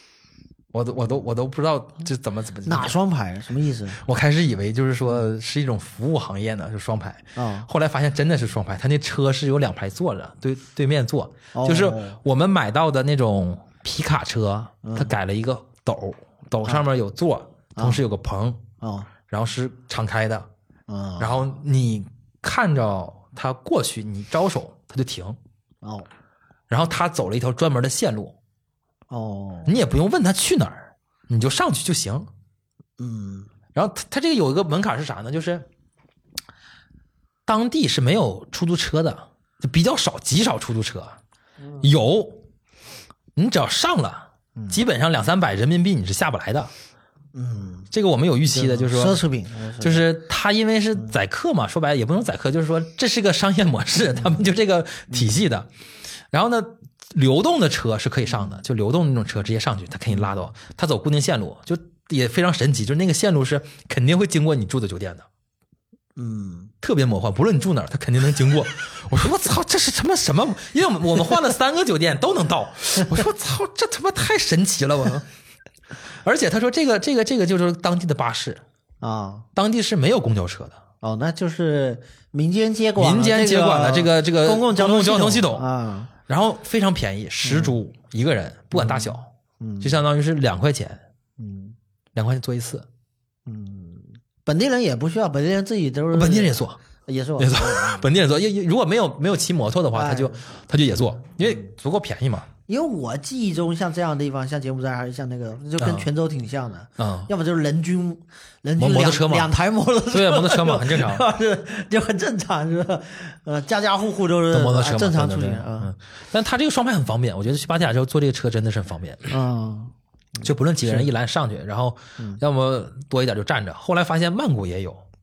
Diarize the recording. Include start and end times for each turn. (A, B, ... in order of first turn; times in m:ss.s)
0:00.7-0:03.0 A
0:02.6-0:04.0 B
0:04.0-0:18.6 A
0:07.4-0:07.7 B
0:11.5-0:12.2 B
0:14.8-0:15.1 B
0:17.8-0:18.0 B
0:18.8-0:19.1 B
0:19.3-0:20.5 A
0:20.9-0:21.4 B
0:21.2-0:25.4 A
0:25.8-0:26.1 B
0:26.7-0:28.4 A
0:29.1-0:29.8 B
0:29.7-0:32.3 A
0:33.0-0:33.5 B
0:33.7-0:35.7 A
0:37.5-0:41.2 A
0:41.8-0:42.4 A
0:43.4-0:46.7 A
0:44.6-0:44.8 B
0:47.3-0:47.9 B
0:47.9-0:49.2 A
0:48.5-0:50.1 B
0:49.8-0:55.7 A
0:55.1-0:55.4 B
0:56.3-1:05.3 A
1:00.1-1:00.4 B
1:06.2-1:06.7 B
1:06.8-1:15.3 A
1:16.1-1:18.6 A
1:19.0-1:19.4 B
1:19.6-1:20.8 A
1:21.0-1:26.1 B
1:23.0-1:25.7 A
1:26.3-1:29.3 A
1:27.4-1:27.8 B
1:28.7-1:30.0 B
1:29.8-1:31.0 A
1:31.4-1:31.8 B
1:32.2-1:32.9 A
1:33.5-1:38.1 B
1:36.1-1:36.8 A
1:37.4-1:42.5 A
1:39.9-1:40.4 B
1:41.4-1:41.7 B
1:42.7-1:55.9 B
1:45.8-1:46.1 A
1:47.0-1:47.3 A
1:48.8-1:49.5 A
1:50.1-1:51.2 A
1:54.5-1:59.4 A
1:59.3-2:01.1 B
2:00.4-2:05.0 A